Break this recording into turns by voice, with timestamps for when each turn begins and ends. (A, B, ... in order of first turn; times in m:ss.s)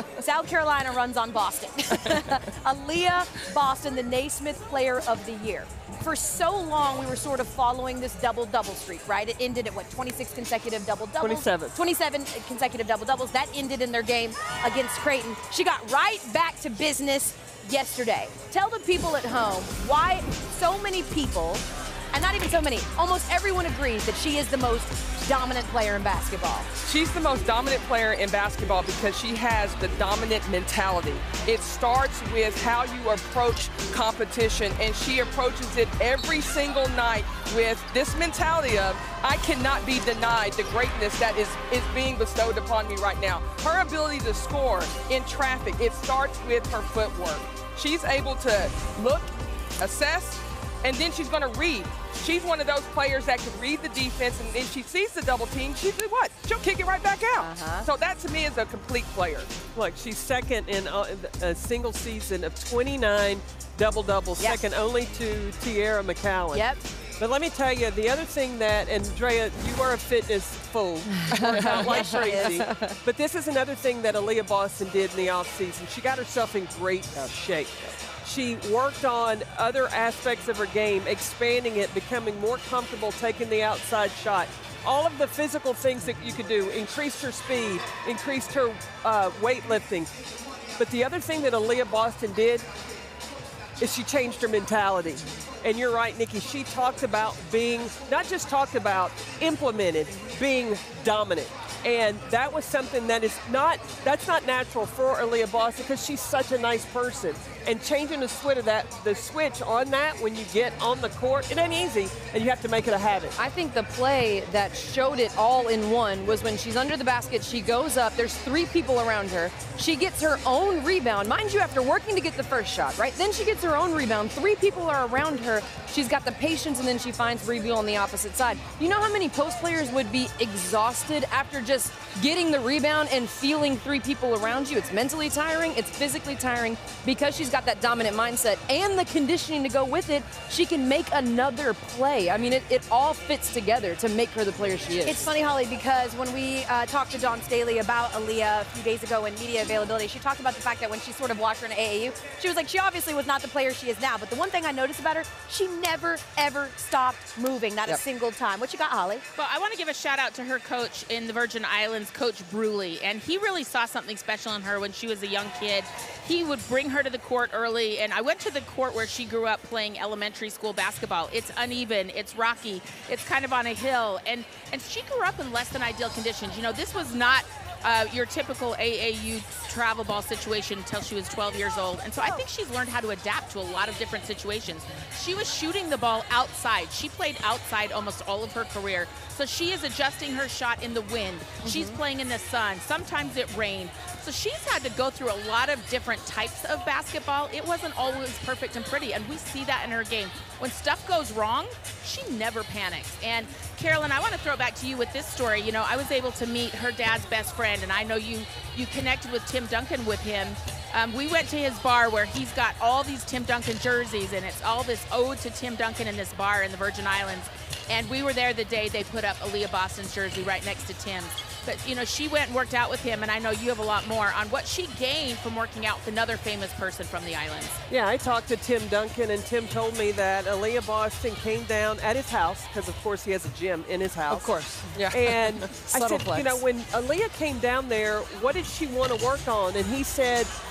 0:00.2-0:26.7 A
0:11.2-0:11.8 B
0:26.8-0:59.6 C
0:57.4-0:57.9 A
0:59.7-1:30.1 B
1:06.5-1:06.8 A
1:11.4-1:12.5 A
1:12.0-1:12.8 D
1:30.8-1:32.7 B
1:33.8-1:53.3 B
1:53.4-2:25.3 D
2:25.0-2:39.2 A
2:39.4-3:47.8 E
3:11.6-3:12.0 A
3:47.9-3:54.5 B
3:54.3-3:55.0 D
3:54.9-3:55.7 C
3:55.1-4:00.5 B
3:55.7-3:56.6 D